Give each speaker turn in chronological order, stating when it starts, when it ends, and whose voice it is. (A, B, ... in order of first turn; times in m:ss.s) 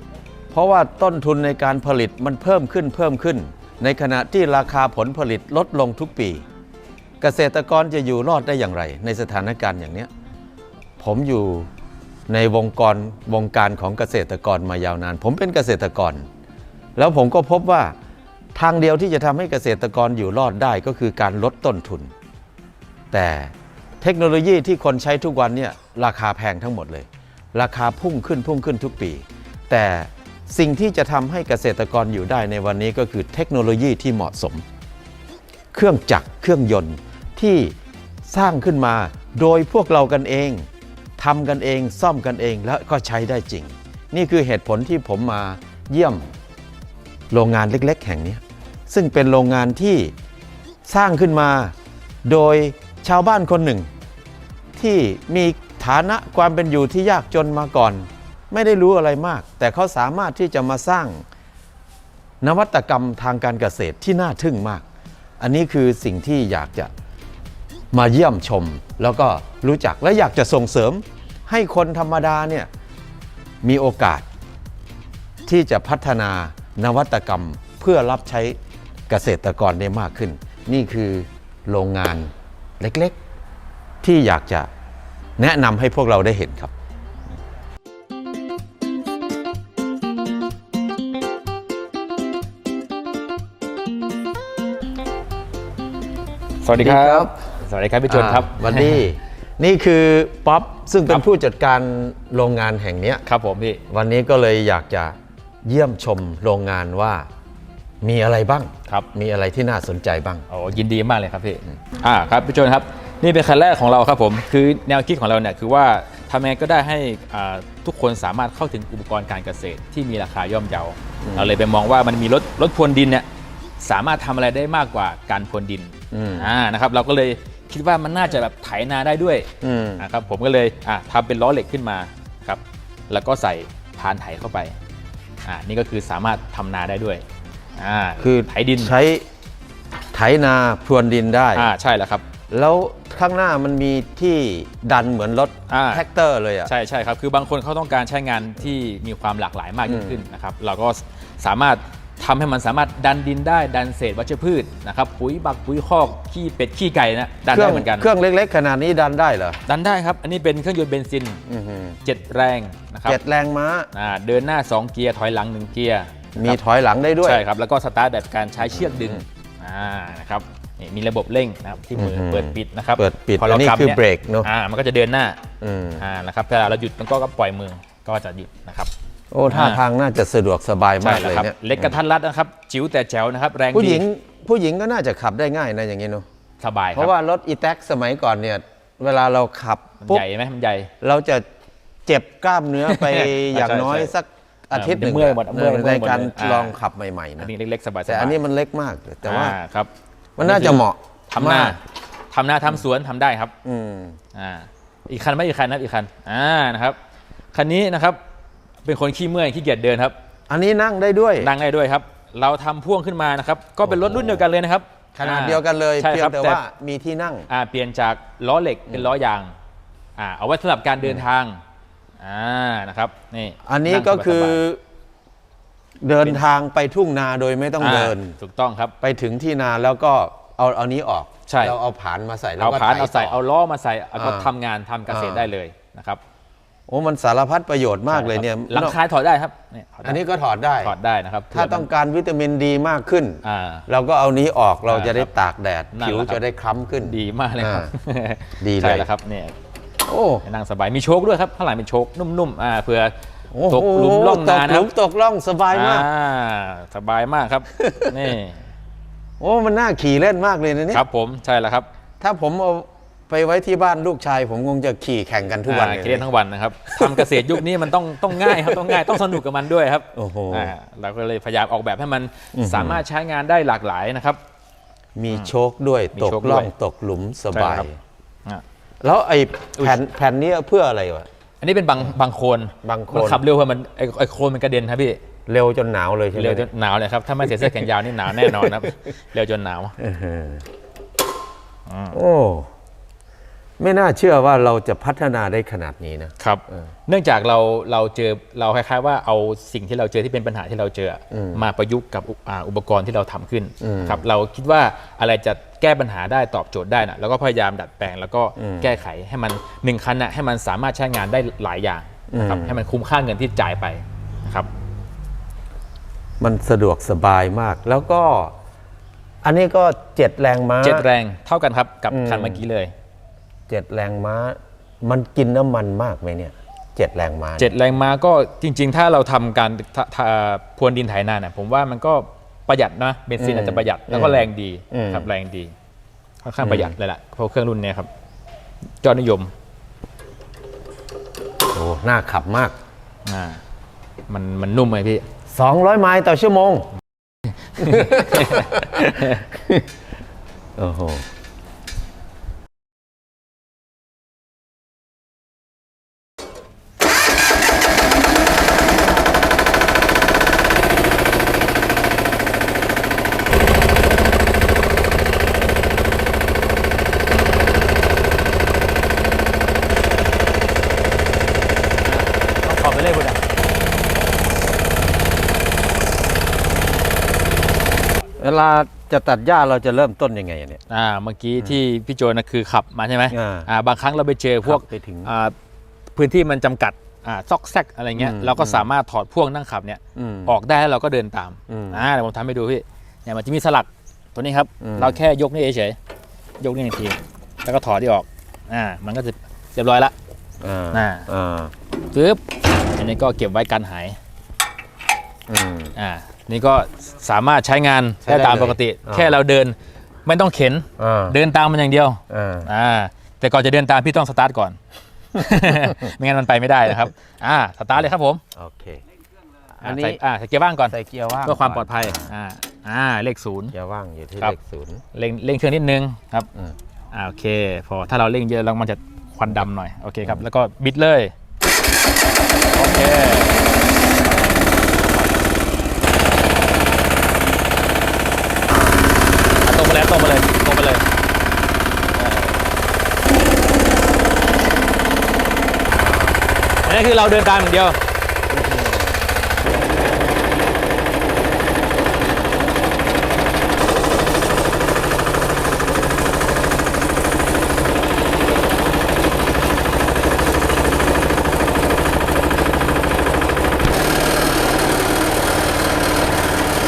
0:00.5-0:06.4 A
0:07.2-0:10.1 A
0:11.0-0:11.7 A
0:12.3-0:16.3 A
0:17.0-0:17.9 A
0:18.5-0:22.1 A
0:23.1-0:34.6 A
0:35.7-0:37.7 A
0:38.3-0:40.7 A
0:41.2-0:46.3 A
0:47.3-0:50.1 A
0:50.8-0:51.7 A
0:52.2-0:53.9 A
0:54.8-1:01.2 A
1:02.4-1:04.8 A
1:05.4-1:06.9 A
1:07.9-1:12.7 A
1:13.6-1:14.3 A
1:15.4-1:18.6 A
1:19.1-1:23.2 A
1:24.0-1:24.7 A
1:25.4-1:26.7 A
1:36.6-1:39.0 B
1:36.8-1:37.3 A
1:38.1-1:43.2 A
1:43.2-1:43.8 B
1:43.9-1:47.3 A
1:48.0-1:50.4 A
1:50.5-2:03.3 B
2:01.2-2:01.6 A
2:03.8-2:14.7 B
2:06.1-2:06.5 A
2:09.6-2:10.0 A
2:15.4-2:17.2 B
2:17.8-2:18.9 B
2:18.2-2:19.2 A
2:20.1-2:21.7 A
2:21.6-2:22.2 B
2:22.5-2:26.7 A
2:25.7-2:26.0 B
2:26.6-2:38.0 B
2:29.9-2:30.2 A
2:37.5-2:39.6 A
2:39.7-2:41.4 B
2:41.4-2:42.0 A
2:42.0-2:43.2 B
2:43.0-2:43.9 A
2:43.9-2:46.6 B
2:46.4-2:47.4 A
2:47.2-2:55.4 B
2:48.6-2:49.2 A
2:52.0-2:54.5 A
2:55.6-2:56.0 A
2:56.0-2:58.9 B
2:59.3-3:01.9 A
2:59.5-2:59.8 B
3:01.0-3:04.0 B
3:03.7-3:06.2 A
3:06.6-3:07.1 B
3:06.9-3:10.2 A
3:10.0-3:10.9 B
3:11.0-3:11.4 A
3:12.0-3:17.5 A
3:12.8-3:14.1 B
3:14.7-3:16.7 B
3:17.4-3:18.4 B
3:18.0-3:19.6 A
3:19.2-3:23.5 B
3:20.4-3:21.8 A
3:23.6-3:24.2 A
3:24.3-3:27.0 B
3:27.5-3:28.2 B
3:28.8-3:30.1 B
3:30.5-3:31.5 A
3:31.4-3:36.6 B
3:33.8-3:34.4 A
3:35.2-3:37.5 A
3:37.5-3:39.5 B
3:40.2-3:41.6 B
3:42.2-3:44.6 B
3:43.6-3:44.8 A
3:46.0-3:48.4 A
3:47.8-3:48.9 B
3:49.0-3:53.4 A
3:51.5-3:51.8 B
3:52.6-3:56.2 B
3:54.1-3:54.5 A
3:55.1-3:55.5 A
3:56.9-3:59.0 A
3:58.1-4:00.2 B
4:00.0-4:00.9 A
4:00.8-4:01.9 B
4:01.5-4:07.9 A
4:03.4-4:03.8 B
4:04.9-4:05.3 B
4:05.9-4:06.4 B
4:07.0-4:09.5 B
4:08.6-4:09.1 A
4:10.1-4:10.4 A
4:10.4-4:13.1 B
4:13.5-4:16.1 A
4:13.7-4:14.9 B
4:15.7-4:18.6 B
4:17.9-4:18.2 A
4:19.4-4:21.0 A
4:20.9-4:21.9 B
4:22.2-4:26.3 A
4:25.7-4:34.4 B
4:27.0-4:27.6 A
4:28.3-4:29.4 A
4:30.1-4:30.7 A
4:32.5-4:33.0 A
4:35.2-4:37.9 A
4:36.1-4:36.7 B
4:37.5-4:37.9 B
4:39.0-4:41.3 A
4:41.6-4:45.2 B
4:42.8-4:43.4 A
4:45.5-4:46.7 A
4:46.3-4:49.9 B
4:48.4-4:48.7 A
4:50.0-4:50.6 A
4:51.9-4:52.2 B
4:52.1-4:52.7 A
4:53.8-4:56.7 A
4:56.4-5:14.7 B
5:01.3-5:01.6 A
5:03.8-5:04.2 A
5:08.6-5:09.0 A
5:12.3-5:12.8 A
5:16.4-5:18.5 A
5:19.4-5:21.0 A
5:20.8-5:22.9 B
5:22.1-5:22.6 A
5:23.7-5:27.8 A
5:27.6-5:35.7 B
5:33.4-5:35.3 A
5:36.4-5:38.1 B
5:36.6-5:36.9 A
5:39.0-5:39.5 B
5:41.7-5:42.8 A
5:43.2-5:43.6 B
5:44.3-5:45.2 B
5:45.5-5:46.9 A
5:47.8-5:49.5 B
5:47.8-5:49.8 A
5:50.8-5:51.3 A
6:12.0-6:13.4 B
6:18.4-6:20.8 A
6:20.9-6:25.5 B
6:23.3-6:23.7 A
6:24.6-6:25.3 A
6:26.1-6:36.0 B
6:28.2-6:28.9 A
6:30.1-6:30.6 A
6:31.7-6:32.0 A
6:34.8-6:35.2 A
6:36.6-6:40.1 B
6:40.6-6:41.7 A
6:40.9-6:41.2 B
6:42.1-6:42.4 B
6:43.0-6:44.2 B
6:45.5-6:45.9 A
6:46.0-6:54.8 B
6:48.2-6:49.4 A
6:51.0-6:51.4 A
6:52.3-6:52.7 A
6:55.3-6:58.4 B
6:58.6-6:59.0 A
6:59.8-7:00.2 A
6:59.8-7:00.9 B
7:00.9-7:02.3 A
7:01.4-7:03.7 B
7:03.7-7:05.0 A
7:05.1-7:06.5 B
7:07.1-7:11.3 B
7:12.7-7:13.6 B
7:15.0-7:15.4 B
7:18.8-7:19.0 A
7:19.6-7:21.0 B
7:22.2-7:22.6 B
7:25.9-7:26.4 A
7:26.8-7:28.0 B
7:28.5-7:29.3 A